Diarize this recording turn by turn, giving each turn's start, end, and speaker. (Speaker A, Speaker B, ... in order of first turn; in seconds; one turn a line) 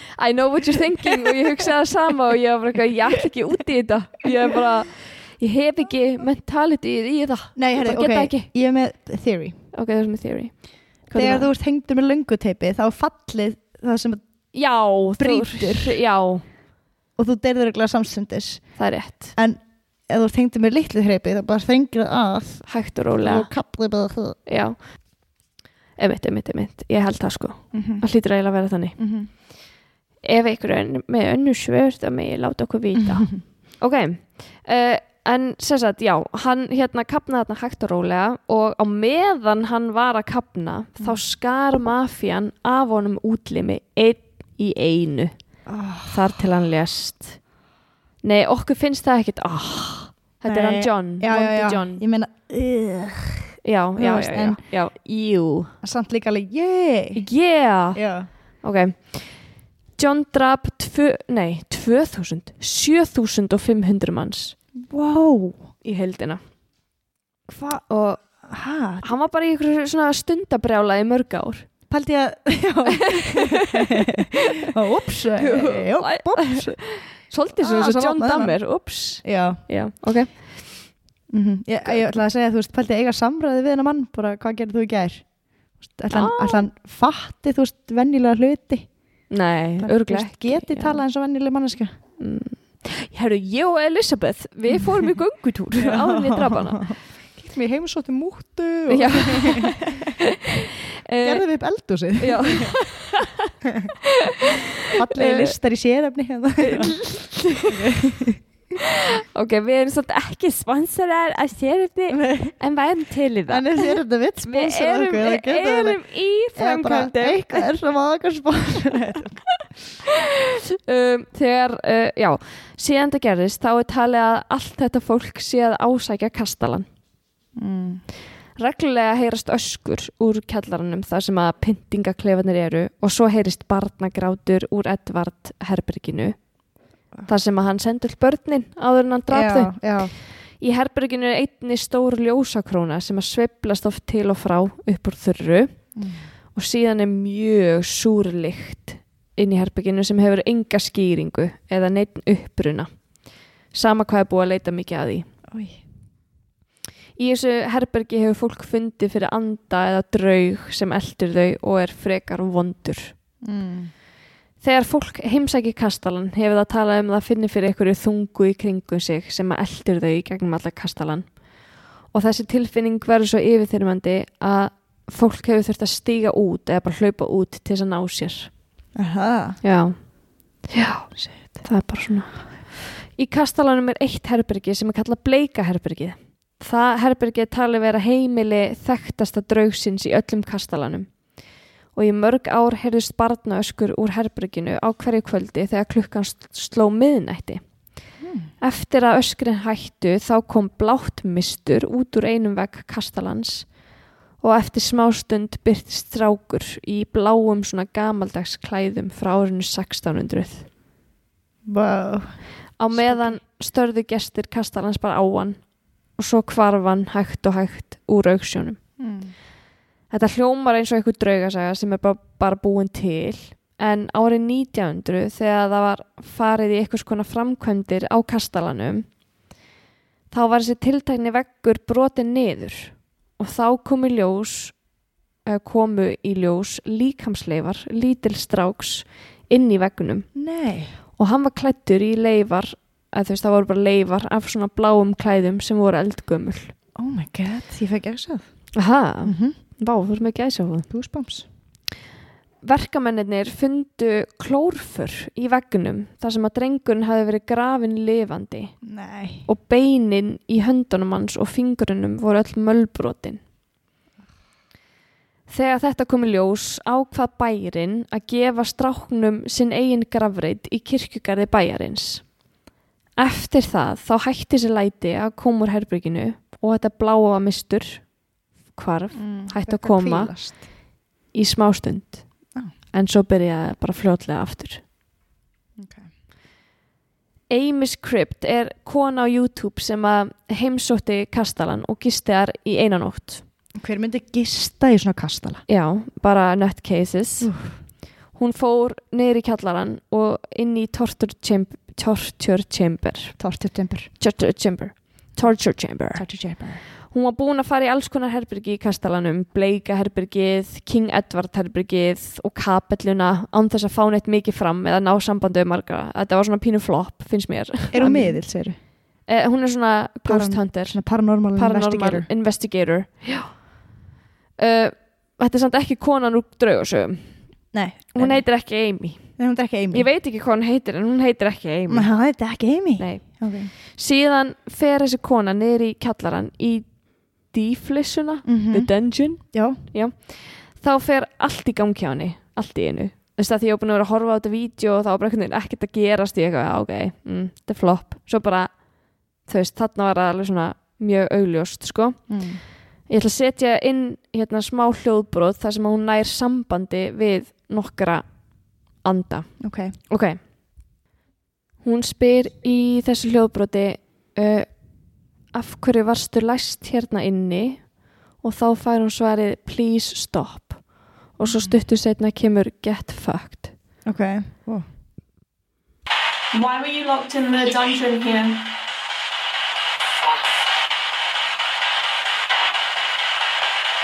Speaker A: 0.2-8.5
Speaker B: 7.6-9.6
Speaker A: 9.7-11.5
Speaker B: 11.1-14.2
Speaker A: 14.5-16.4
Speaker B: 15.2-16.0
Speaker B: 17.2-18.8
Speaker A: 18.8-19.3
Speaker B: 19.4-22.7
Speaker A: 22.7-23.5
Speaker B: 23.2-24.4
Speaker A: 24.5-24.8
Speaker A: 26.0-29.0
Speaker B: 27.7-28.0
Speaker B: 29.0-29.3
Speaker A: 30.2-45.3
Speaker B: 33.0-33.4
Speaker B: 45.7-46.4
Speaker A: 46.1-47.4
Speaker A: 48.2-52.0
Speaker B: 50.5-54.6
Speaker A: 53.6-55.7
Speaker B: 55.8-57.2
Speaker A: 57.1-58.0
Speaker B: 57.9-58.3
Speaker A: 58.6-59.4
Speaker A: 60.0-64.6
Speaker B: 64.8-65.7
Speaker A: 65.8-66.4
Speaker A: 67.5-68.2
Speaker B: 68.4-69.1
Speaker A: 69.0-71.7
Speaker B: 71.9-76.8
Speaker A: 73.1-74.2
Speaker A: 75.4-80.9
Speaker B: 77.5-78.6
Speaker B: 79.2-79.6
Speaker B: 81.3-85.3
Speaker A: 81.8-82.1
Speaker B: 85.8-88.9
Speaker A: 86.1-86.7
Speaker A: 89.3-91.0
Speaker B: 89.8-91.9
Speaker A: 92.2-96.9
Speaker B: 95.8-100.1
Speaker A: 98.9-101.5
Speaker B: 101.2-102.8
Speaker A: 102.2-103.5
Speaker B: 104.9-107.0
Speaker A: 105.1-105.5
Speaker A: 106.6-107.8
Speaker B: 107.7-108.4
Speaker A: 109.1-117.7
Speaker B: 112.1-112.5
Speaker B: 113.5-119.5
Speaker A: 120.5-126.9
Speaker B: 127.6-128.0
Speaker A: 128.6-136.4
Speaker A: 137.3-139.8
Speaker B: 139.3-140.1
Speaker A: 140.6-145.7
Speaker B: 145.9-146.2
Speaker A: 146.5-152.9
Speaker A: 153.7-155.3
Speaker B: 155.5-155.8
Speaker A: 157.2-163.1
Speaker B: 163.4-163.9
Speaker A: 164.6-171.3
Speaker A: 172.1-178.5
Speaker B: 178.9-179.6
Speaker A: 179.6-180.0
Speaker A: 180.7-191.1
Speaker B: 181.2-181.4
Speaker A: 191.9-197.6
Speaker B: 198.2-198.5
Speaker A: 198.6-203.7
Speaker A: 204.4-210.7
Speaker B: 211.7-213.4
Speaker A: 212.8-215.6
Speaker A: 216.2-218.8
Speaker B: 219.0-219.3
Speaker A: 220.1-229.1
Speaker A: 230.3-234.8
Speaker A: 235.5-240.3
Speaker B: 240.3-240.9
Speaker A: 241.2-246.7
Speaker B: 247.0-248.5
Speaker A: 248.8-250.9
Speaker B: 249.2-249.6
Speaker B: 250.9-251.5
Speaker A: 252.6-258.8
Speaker B: 258.8-259.5
Speaker A: 259.5-263.4
Speaker A: 265.5-272.3
Speaker A: 273.2-278.1
Speaker A: 278.7-280.3
Speaker B: 279.1-280.6
Speaker A: 281.3-282.3
Speaker A: 282.9-284.8
Speaker B: 285.8-286.1
Speaker A: 287.5-293.4
Speaker B: 293.8-295.6
Speaker A: 295.7-297.5
Speaker B: 297.4-297.8
Speaker A: 298.3-303.4
Speaker B: 303.4-304.1
Speaker A: 304.2-306.3
Speaker B: 306.1-306.8
Speaker A: 307.1-318.4
Speaker B: 317.9-318.8
Speaker A: 319.3-321.0
Speaker B: 320.2-322.3
Speaker A: 321.5-323.6
Speaker A: 324.6-327.3
Speaker B: 327.7-328.4
Speaker A: 328.1-329.3
Speaker B: 329.4-330.1
Speaker A: 329.9-332.1
Speaker B: 331.9-333.7
Speaker A: 333.0-348.8
Speaker B: 338.5-339.8
Speaker A: 349.4-352.4
Speaker B: 352.3-352.6
Speaker A: 353.1-358.2
Speaker A: 359.0-360.4
Speaker B: 359.6-359.9
Speaker A: 361.8-364.7
Speaker A: 365.5-373.7
Speaker B: 371.5-371.8
Speaker B: 374.1-374.9
Speaker C: 376.5-378.7